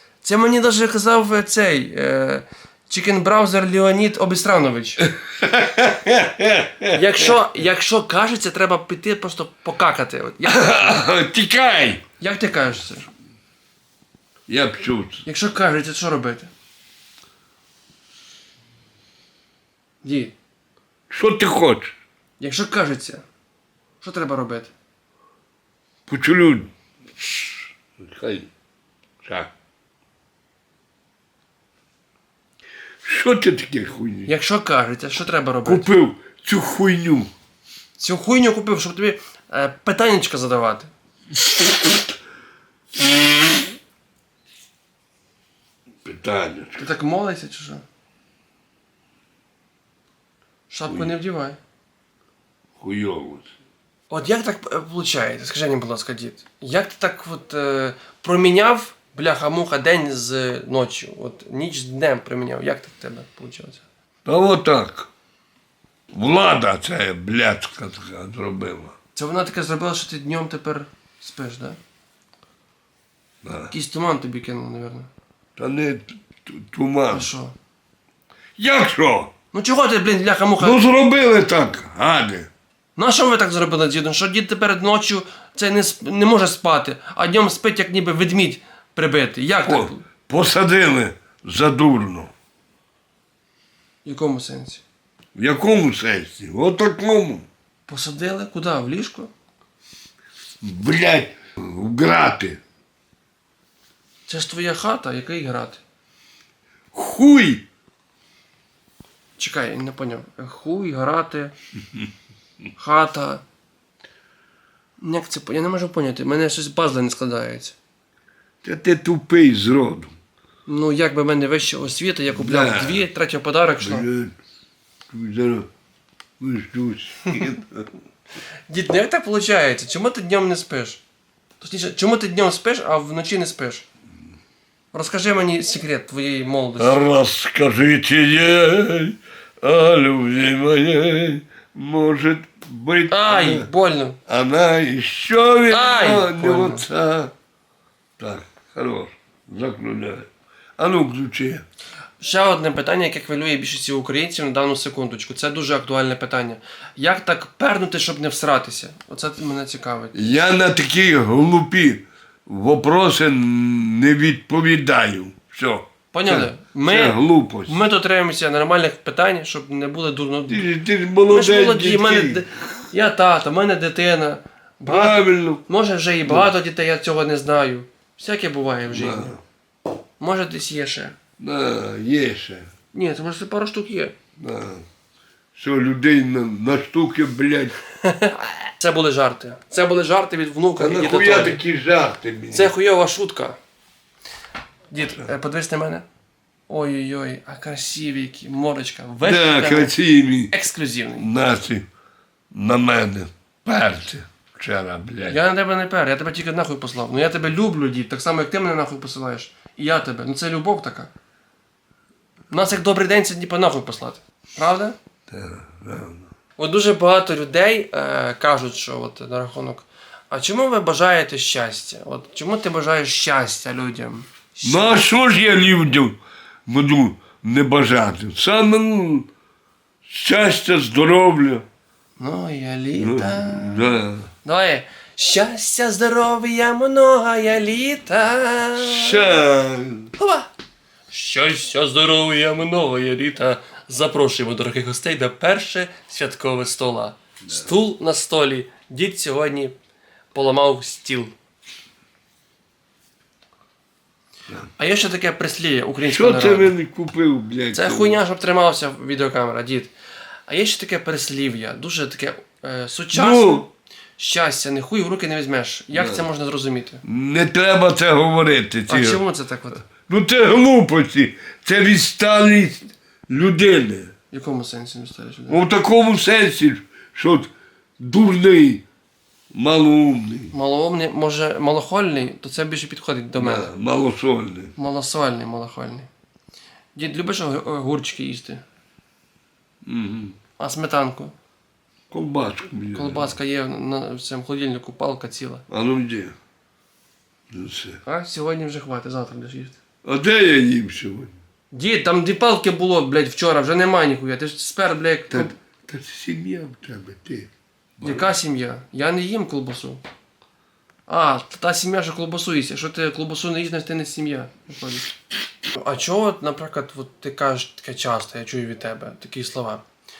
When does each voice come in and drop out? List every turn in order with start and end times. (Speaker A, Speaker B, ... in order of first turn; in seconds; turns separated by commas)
Speaker A: 0.2-5.0, Speaker B: 5.0-7.3, Speaker A: 6.9-11.0, Speaker B: 10.4-12.0, Speaker A: 12.2-13.1, Speaker B: 14.5-15.2, Speaker A: 15.2-16.5, Speaker A: 20.0-20.3, Speaker B: 21.1-21.9, Speaker A: 22.4-23.2, Speaker A: 24.0-24.7, Speaker B: 26.1-28.5, Speaker B: 29.2-29.5, Speaker B: 33.0-34.3, Speaker A: 34.2-35.9, Speaker B: 35.6-37.3, Speaker A: 38.0-40.9, Speaker B: 46.0-46.9, Speaker A: 46.8-47.8, Speaker A: 50.7-51.6, Speaker B: 50.8-51.1, Speaker B: 52.8-53.5, Speaker A: 54.1-63.8, Speaker B: 64.2-65.1, Speaker B: 66.1-68.9, Speaker A: 69.2-71.8, Speaker B: 73.4-73.7, Speaker A: 73.7-75.1, Speaker B: 75.6-77.3, Speaker A: 77.1-77.5, Speaker B: 78.6-79.3, Speaker A: 79.5-80.8, Speaker B: 80.6-82.5, Speaker A: 83.0-90.0, Speaker B: 89.6-92.3, Speaker A: 94.0-94.8, Speaker B: 95.3-97.5, Speaker A: 97.9-99.3, Speaker B: 100.6-102.6, Speaker A: 104.3-105.8, Speaker B: 106.9-107.6, Speaker A: 109.4-111.5, Speaker A: 112.8-113.4, Speaker A: 115.0-117.7, Speaker B: 118.6-120.1, Speaker A: 120.7-124.1, Speaker B: 122.3-123.0, Speaker B: 123.8-124.3, Speaker B: 125.1-125.7, Speaker B: 126.4-127.9, Speaker A: 128.7-131.0, Speaker A: 131.6-133.8, Speaker A: 134.9-137.0, Speaker B: 136.8-143.7, Speaker A: 143.1-144.2, Speaker B: 144.3-147.3, Speaker A: 145.7-146.9, Speaker B: 148.2-150.3, Speaker B: 150.8-151.6, Speaker A: 152.2-160.1, Speaker B: 160.1-167.8, Speaker A: 166.1-170.7, Speaker B: 170.5-172.4, Speaker A: 171.3-179.3, Speaker B: 174.8-175.6, Speaker B: 178.9-179.4, Speaker A: 180.2-181.2, Speaker B: 181.4-182.7, Speaker A: 182.9-184.1, Speaker B: 184.4-184.8, Speaker B: 185.5-187.7, Speaker A: 188.0-191.6, Speaker B: 190.8-192.7, Speaker A: 192.5-193.6, Speaker A: 194.9-196.0, Speaker A: 196.7-199.9, Speaker B: 199.2-200.5, Speaker A: 200.5-201.3, Speaker B: 201.2-201.8, Speaker B: 202.5-205.4, Speaker A: 205.3-211.1, Speaker A: 212.5-215.0, Speaker B: 215.3-216.3, Speaker A: 216.6-225.0, Speaker B: 224.6-229.3, Speaker B: 230.0-231.6, Speaker A: 232.2-239.3, Speaker B: 233.0-234.3, Speaker B: 238.8-240.1, Speaker A: 240.2-240.5, Speaker A: 241.1-249.7, Speaker A: 250.3-251.3, Speaker A: 254.8-256.7, Speaker B: 256.0-258.2, Speaker A: 257.7-259.9, Speaker A: 260.5-263.6, Speaker B: 263.1-263.7, Speaker A: 264.2-267.0, Speaker B: 265.9-266.3, Speaker B: 267.0-269.2, Speaker A: 268.9-269.8, Speaker B: 270.0-274.1, Speaker A: 274.3-275.6, Speaker B: 275.5-278.8, Speaker B: 279.5-280.5, Speaker A: 280.5-283.7, Speaker B: 283.4-284.7, Speaker A: 284.8-286.1, Speaker A: 286.9-288.6, Speaker B: 289.9-290.4, Speaker A: 290.6-291.3, Speaker B: 292.1-293.3, Speaker A: 292.9-295.6, Speaker B: 295.7-296.3, Speaker B: 297.5-298.0, Speaker A: 298.0-299.8, Speaker B: 300.0-301.3, Speaker A: 301.7-305.6, Speaker B: 305.3-308.3, Speaker A: 308.0-310.0, Speaker A: 311.1-315.1, Speaker A: 315.7-319.8